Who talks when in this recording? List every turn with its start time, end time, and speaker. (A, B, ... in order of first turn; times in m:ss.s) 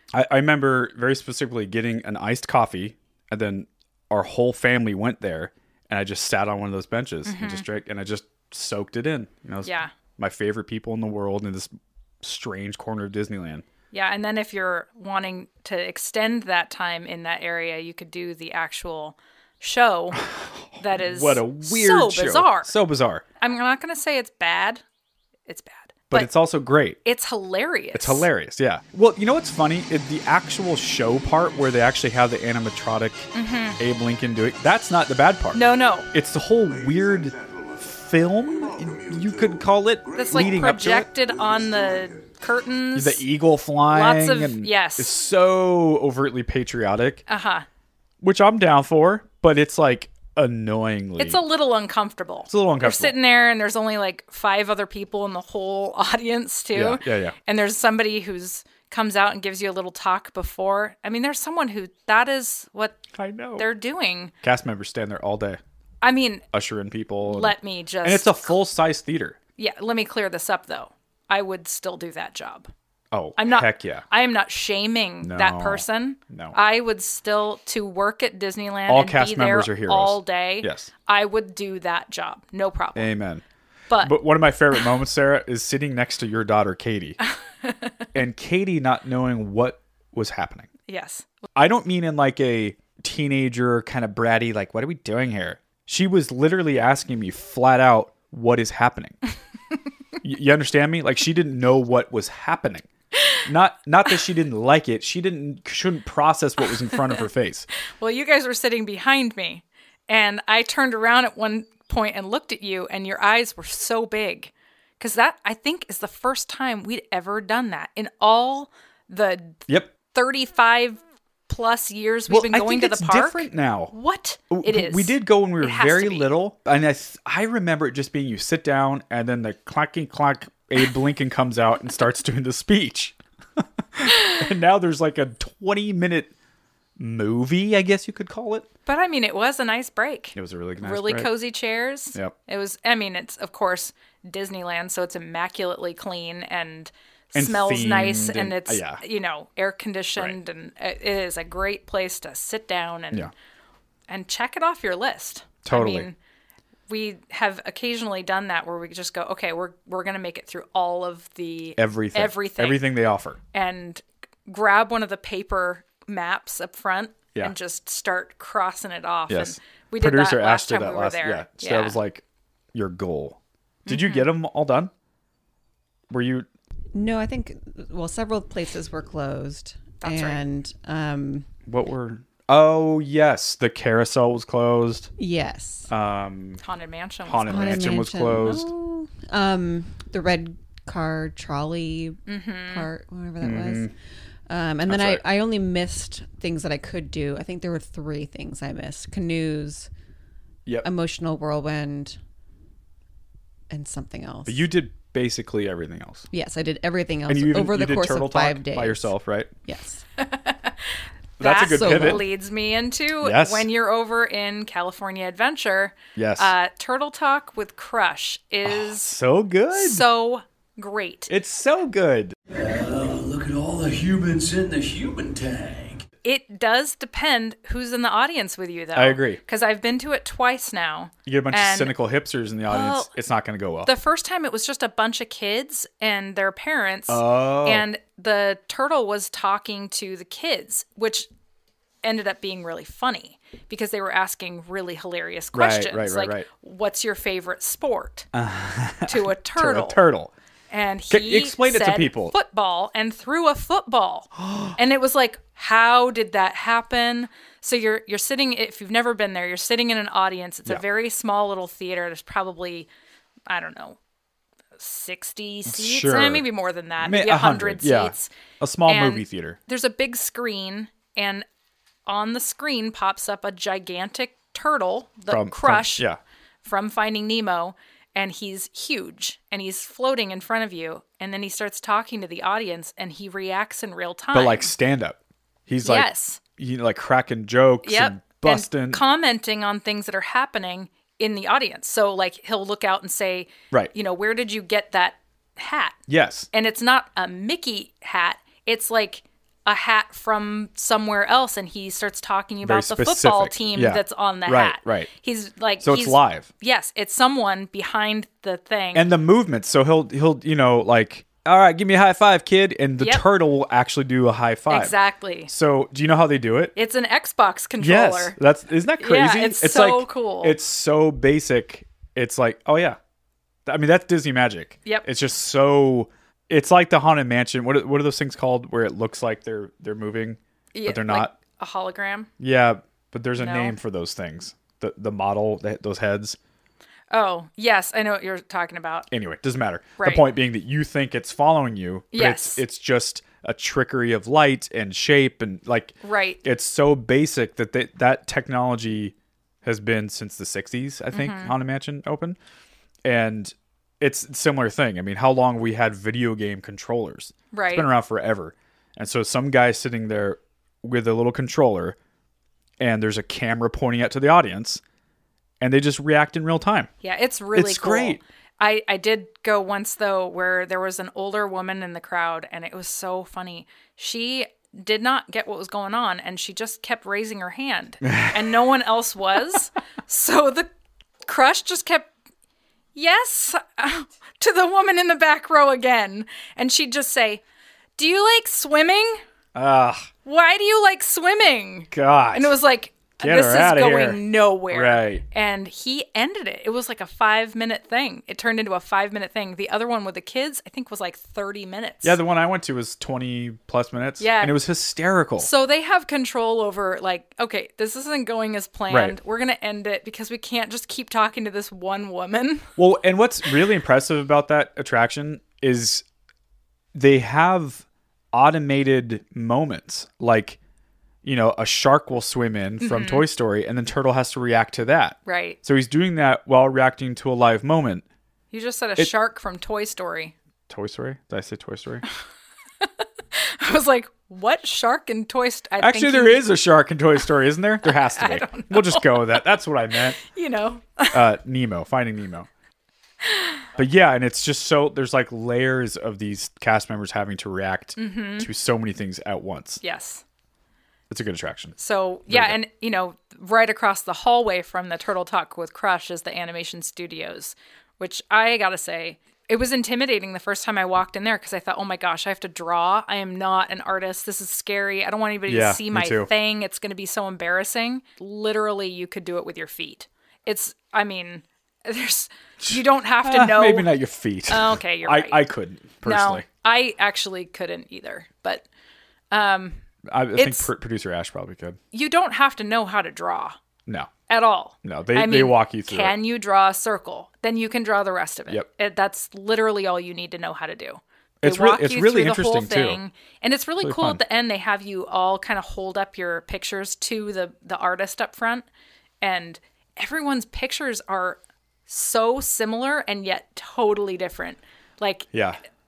0:00.1-0:13.6 A
0:07.2-0:07.6 B
0:09.6-0:09.9 B
0:13.9-0:20.2 B
0:20.1-0:23.2 A
0:20.8-0:22.7 B
0:23.4-0:24.8 B
0:25.5-0:26.3 B
0:26.1-0:27.0 A
0:27.0-0:28.3 B
0:27.9-0:41.1 A
0:33.3-0:33.8 B
0:35.5-0:36.1 B
0:40.1-0:43.2 B
0:43.0-0:47.2 A
0:43.9-0:45.1 B
0:47.3-0:47.7 B
0:48.2-0:51.4 A
0:51.2-1:03.0 B
0:52.5-0:53.1 A
0:56.7-0:57.4 A
1:03.1-1:03.7 A
1:03.6-1:04.3 B
1:04.4-1:05.6 A
1:06.0-1:06.4 B
1:06.5-1:09.4 A
1:07.3-1:08.6 B
1:09.6-1:12.7 B
1:13.1-1:14.0 A
1:13.4-1:23.1 B
1:15.2-1:16.6 A
1:18.9-1:20.9 A
1:23.0-1:23.4 A
1:23.9-1:24.2 B
1:24.0-1:27.2 A
1:27.6-1:28.1 B
1:28.1-1:30.7 A
1:30.9-1:31.3 B
1:31.6-1:39.2 A
1:40.2-1:42.9 A
1:43.4-1:47.7 A
1:48.0-2:06.3 B
1:59.7-1:59.9 A
2:02.3-2:03.9 A
2:04.5-2:16.3 A
2:17.0-2:18.7 A
2:18.9-2:33.3 B
2:20.4-2:21.3 A
2:27.3-2:29.0 A
2:34.1-2:36.2 B
2:35.6-2:36.1 A
2:36.9-2:42.8 B
2:41.8-2:43.4 A
2:43.5-2:52.0 B
2:49.3-2:52.2 A
2:52.7-2:54.9 A
2:53.9-2:54.3 B
2:56.1-2:56.5 A
2:56.9-3:01.5 C
3:00.0-3:00.4 B
3:01.7-3:05.1 A
3:05.2-3:05.9 C
3:05.9-3:06.6 A
3:06.6-3:08.1 B
3:07.3-3:08.7 A
3:07.5-3:13.9 C
3:12.3-3:12.9 B
3:13.4-3:13.9 A
3:14.5-3:19.9 C
3:14.9-3:15.2 A
3:20.8-3:22.2 C
3:23.7-3:24.7 C
3:24.5-3:26.3 A
3:26.3-3:29.1 C
3:27.3-3:29.5 A
3:29.6-3:30.0 C
3:30.2-3:39.2 B
3:31.4-3:32.2 A
3:31.6-3:32.3 C
3:33.2-3:33.7 A
3:36.2-3:36.5 A
3:38.6-3:40.1 A
3:39.7-3:41.3 B
3:41.3-3:42.4 A
3:42.5-3:46.0 D
3:46.2-3:51.9 B
3:48.9-3:49.4 A
3:51.3-3:53.9 A
3:52.7-3:53.1 B
3:53.8-4:01.3 B
3:57.1-3:57.9 A
4:02.0-4:08.3 B
4:05.5-4:06.5 A
4:08.3-4:10.3 A
4:09.1-4:10.0 B
4:10.7-4:22.9 B
4:11.1-4:12.4 A
4:14.4-4:14.8 A
4:23.5-4:24.0 B
4:24.8-4:28.3 B
4:25.7-4:26.5 A
4:27.0-4:29.6 A
4:28.9-4:31.5 B
4:32.1-4:36.0 B
4:35.3-4:36.2 A
4:36.6-4:44.7 B
4:44.3-4:49.0 A
4:45.8-4:46.4 B
4:47.8-4:56.0 B
4:56.1-4:56.5 A
4:56.5-5:09.0 B
5:02.6-5:05.1 A
5:05.8-5:06.5 A
5:08.9-5:15.0 A
5:14.7-5:15.5 B
5:15.5-5:16.7 A
5:16.8-5:18.4 B
5:17.8-5:23.0 A
5:19.0-5:20.6 B
5:23.7-5:31.4 A
5:30.7-5:32.3 B
5:32.4-5:36.4 A
5:33.4-5:33.8 B
5:37.1-5:39.1 B
5:39.1-5:52.4 A
5:40.0-5:40.2 B
5:42.1-5:42.6 B
5:46.0-5:46.4 B
5:51.1-5:51.5 B
5:53.0-6:02.0 A
5:57.5-5:57.9 B
6:02.8-6:04.8 A
6:05.6-6:06.9 A
6:07.0-6:20.7 B
6:07.5-6:08.2 A
6:18.0-6:18.4 A
6:21.3-6:22.1 B
6:23.0-6:27.4 B
6:28.0-6:29.2 B
6:29.6-6:30.1 A
6:30.2-6:42.2 B
6:31.9-6:32.6 A
6:33.2-6:34.2 A
6:34.7-6:35.2 A
6:42.0-6:45.5 A
6:44.2-6:44.6 B
6:45.4-6:52.7 B
6:48.9-6:49.2 A
6:52.8-6:56.0 A
6:56.9-7:00.6 A
7:01.2-7:08.0 A
7:02.8-7:03.3 B
7:05.3-7:05.6 B
7:08.5-7:10.3 B
7:10.7-7:12.0 A
7:12.8-7:16.5 B
7:15.8-7:20.2 A
7:17.8-7:19.5 B
7:20.2-7:21.2 B
7:21.1-7:22.5 A
7:23.2-7:23.7 B
7:23.8-7:29.8 A
7:28.0-7:28.5 B
7:29.8-7:30.2 B
7:31.1-7:31.8 A
7:31.8-7:53.9 B
7:32.3-7:32.6 A
7:45.5-7:46.3 A
7:52.6-7:56.4 A
7:54.5-7:55.4 B
7:56.0-7:58.6 B
7:59.3-7:59.8 B
8:00.1-8:01.8 A
8:00.4-8:00.7 B
8:01.9-8:03.6 B
8:03.9-8:04.1 A
8:04.3-8:18.7 B
8:04.8-8:06.2 A
8:11.4-8:13.0 A
8:13.8-8:14.2 A
8:19.2-8:25.3 B
8:25.3-8:25.6 A